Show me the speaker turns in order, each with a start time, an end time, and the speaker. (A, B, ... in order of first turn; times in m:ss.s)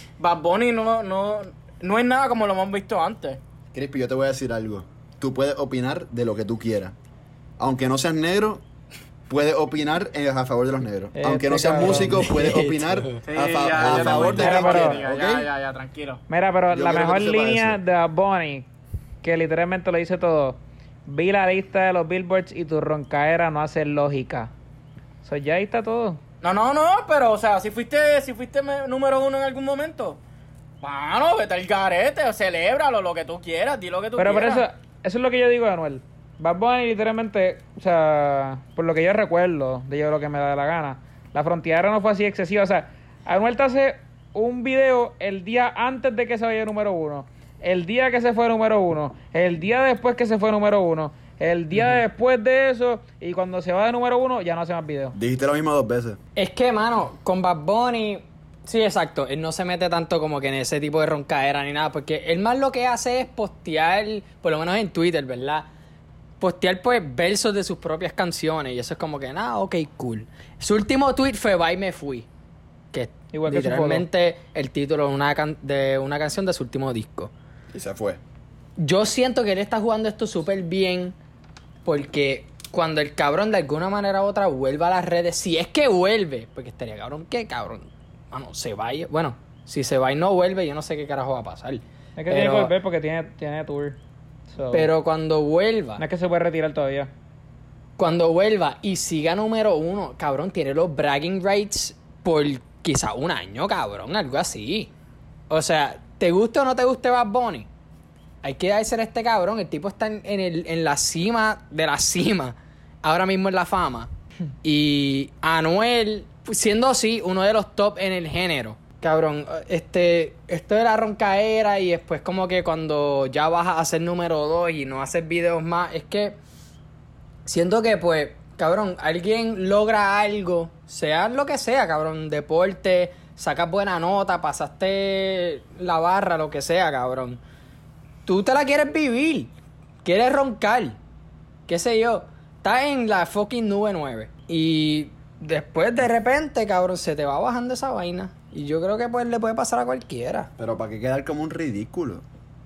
0:00.2-0:03.4 A
0:03.7-0:06.9 B
0:07.6-0:08.6 B
0:09.3-0:15.5 B
0:11.2-0:12.3 C
0:11.7-0:13.2 D
0:13.2-0:16.2 A
0:13.8-0:14.3 D
0:14.2-0:15.0 C
0:16.3-0:18.7 C
0:16.7-0:17.8 B
0:19.2-0:24.5 C
0:25.2-0:26.2 C
0:26.4-0:30.2 A
0:30.8-0:34.6 A
0:34.2-0:55.2 C
0:55.1-0:56.2 B
0:56.4-1:05.7 D
1:06.4-1:12.3 D
1:12.9-1:17.3 D
1:13.3-1:14.0 C
1:17.7-1:18.2 B
1:18.8-1:21.2 D
1:21.8-1:32.7 D
1:32.2-1:34.0 C
1:34.5-1:34.9 C
1:34.7-1:36.0 D
1:36.0-1:37.1 C
1:38.0-1:44.9 D
1:45.5-1:47.7 D
1:48.4-1:54.1 D
1:54.6-2:06.4 D
2:07.4-2:17.4 D
2:18.2-2:19.5 D
2:20.0-2:21.0 D
2:21.7-2:30.5 D
2:30.6-2:32.2 B